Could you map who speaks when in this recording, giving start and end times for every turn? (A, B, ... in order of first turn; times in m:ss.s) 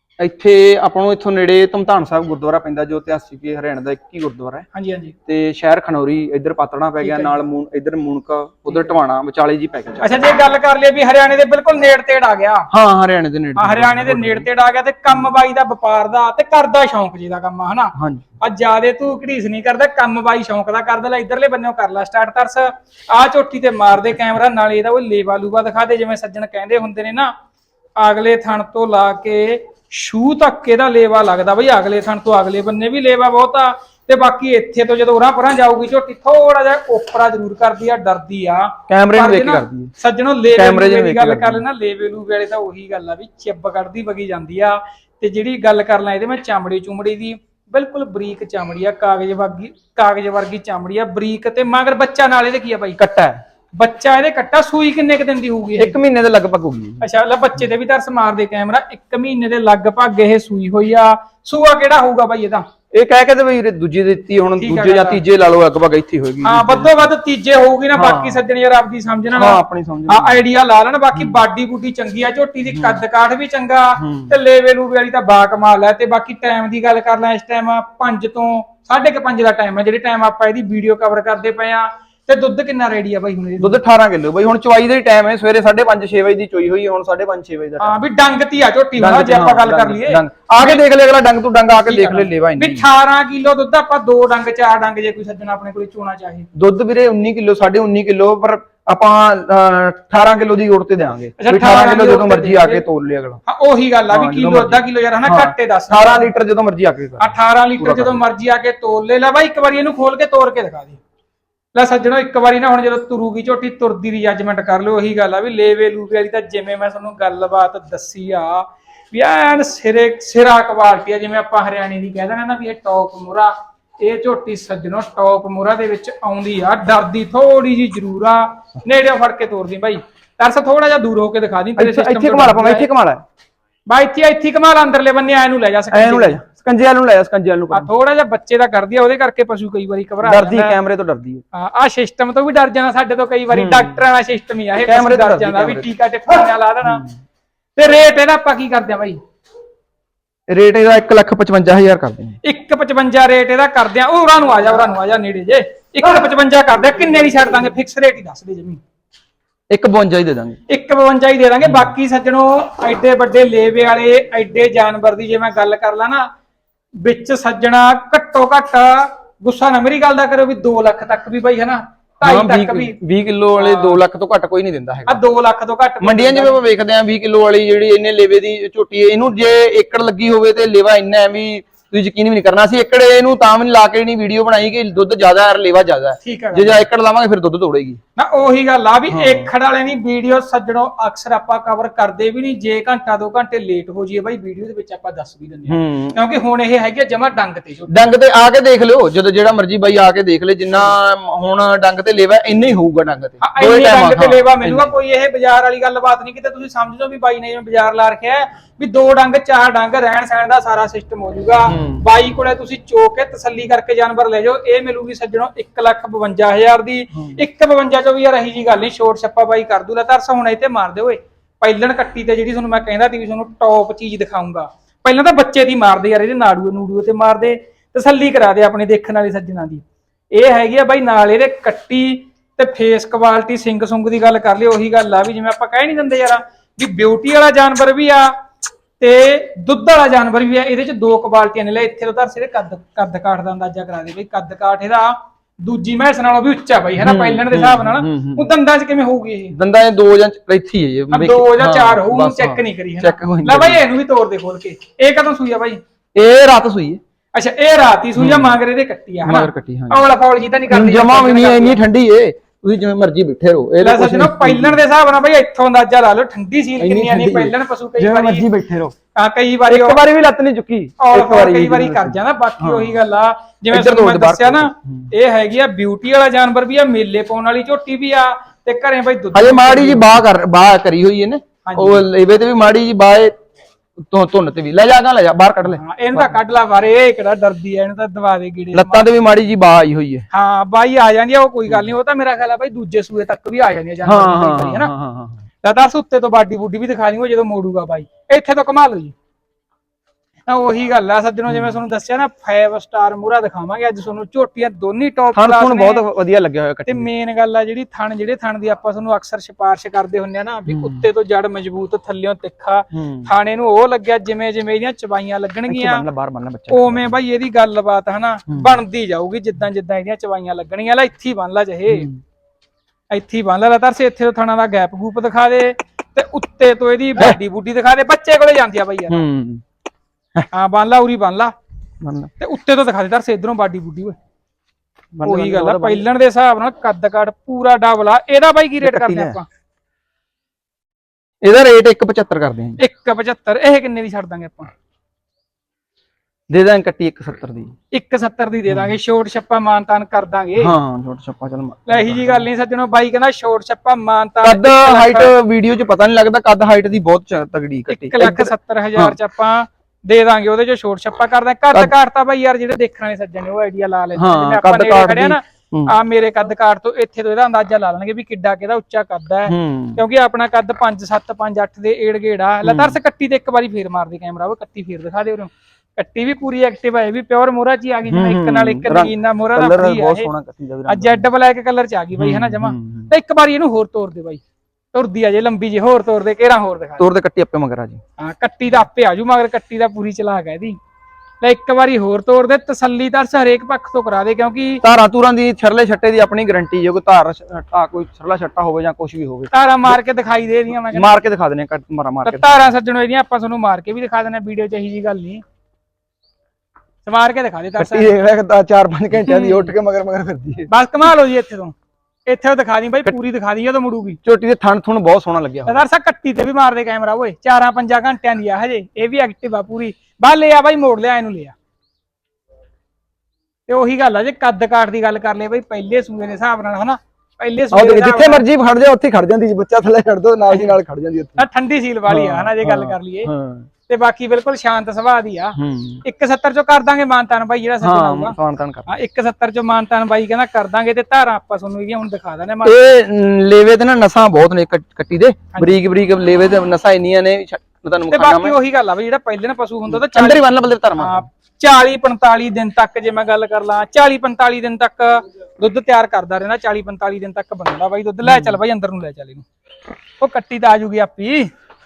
0:00.2-0:04.6 A
0:04.7-0:05.1 B
0:05.3-0:10.2 A
0:07.0-0:07.4 B
0:10.0-0:12.7 B
0:12.7-0:14.5 A
0:13.6-0:27.3 B
0:18.0-0:18.2 A
0:28.0-0:53.0 B
0:38.9-0:39.9 A
0:40.5-0:41.6 A
0:53.0-0:53.4 A
0:53.8-0:56.0 B
0:55.8-0:57.0 A
0:57.0-1:02.6 B
1:02.9-1:07.1 A
1:04.6-1:05.2 B
1:06.4-1:23.8 B
1:07.9-1:08.4 A
1:09.3-1:10.4 A
1:11.1-1:11.4 A
1:12.7-1:13.0 A
1:14.0-1:14.4 A
1:23.6-1:28.0 A
1:27.8-1:30.8 B
1:29.0-1:32.9 A
1:31.8-1:36.4 B
1:36.5-1:43.4 A
1:41.4-1:42.8 B
1:43.4-1:46.3 B
1:44.1-1:48.2 A
1:47.2-1:51.0 B
1:51.7-2:12.9 B
2:11.8-2:13.2 A
2:13.9-2:16.4 B
2:15.9-2:17.9 A
2:17.7-2:20.8 B
2:20.2-2:21.4 A
2:21.5-2:27.0 B
2:23.5-2:24.0 A
2:24.8-2:25.9 A
2:26.8-2:27.1 A
2:27.8-2:29.2 B
2:30.5-2:32.4 A
2:32.4-2:38.8 B
2:39.7-2:40.6 A
2:40.7-2:46.3 B
2:41.6-2:41.9 A
2:47.0-2:52.9 B
2:52.2-2:55.2 A
2:53.6-2:54.0 B
2:55.1-2:56.6 B
2:56.0-3:08.0 A
3:06.2-3:06.8 B
3:08.2-3:17.9 B
3:09.1-3:09.5 A
3:15.7-3:16.2 A
3:17.9-3:24.9 A
3:23.4-3:58.4 B
3:31.7-3:32.0 A
3:37.2-3:37.4 A
3:59.0-4:09.6 B
4:07.0-4:08.5 A
4:09.5-4:13.8 A
4:11.1-4:15.8 B
4:16.1-4:17.0 A
4:17.3-4:21.8 B
4:18.2-4:18.6 A
4:19.2-4:20.0 A
4:20.7-4:24.8 A
4:23.8-4:28.5 B
4:26.8-4:28.9 A
4:29.1-4:30.0 B
4:29.7-4:33.0 A
4:31.0-4:40.2 B
4:33.7-4:35.1 A
4:39.3-4:43.3 A
4:41.6-4:42.0 B
4:44.0-4:46.3 A
4:45.8-4:49.1 B
4:48.7-4:50.3 A
4:50.3-4:54.9 B
4:54.0-4:55.4 A
4:55.6-4:59.1 B
5:00.5-5:06.0 B
5:01.5-5:01.7 A
5:05.3-5:07.1 A
5:06.8-5:16.0 B
5:10.7-5:11.0 A
5:12.9-5:13.3 A
5:15.7-5:17.1 A
5:16.7-5:22.1 B
5:18.5-5:18.8 A
5:21.9-5:22.2 A
5:23.1-5:29.2 B
5:29.1-5:29.6 A
5:30.5-5:31.5 B
5:32.0-5:32.3 A
5:32.4-5:34.2 B
5:35.1-5:36.0 A
5:35.2-5:39.4 B
5:38.8-5:39.4 A
5:41.4-5:42.8 A
5:42.8-5:44.7 B
5:46.5-5:47.7 A
5:47.9-5:50.7 B
5:50.6-5:52.5 A
5:51.9-5:55.3 B
5:54.4-5:59.2 A
5:57.9-6:20.3 B
6:04.2-6:05.9 A
6:09.4-6:10.0 A
6:12.6-6:13.0 A
6:18.1-6:21.3 A
6:20.9-6:24.4 B
6:22.1-6:23.1 A
6:24.9-6:27.0 B
6:27.0-6:28.0 A
6:28.2-6:30.8 B
6:31.4-6:34.8 B
6:34.8-6:40.0 A
6:39.5-6:41.1 B
6:40.7-6:42.7 A
6:42.2-6:45.4 B
6:47.0-6:48.1 B
6:47.8-6:50.7 A
6:49.2-6:49.7 B
6:50.7-6:51.7 B
6:52.2-6:54.2 B
6:54.2-6:55.8 A
6:55.6-7:01.5 B
7:03.7-7:08.4 B
7:07.7-7:11.5 A
7:11.4-7:13.3 B
7:12.1-7:13.7 A
7:13.9-7:18.4 B
7:15.6-7:16.0 A
7:17.8-7:18.9 A
7:18.9-7:22.9 B
7:22.6-7:28.6 A
7:28.1-7:30.4 B
7:29.9-7:31.3 A
7:31.0-7:39.4 B
7:38.2-7:38.6 A
7:40.2-7:41.5 B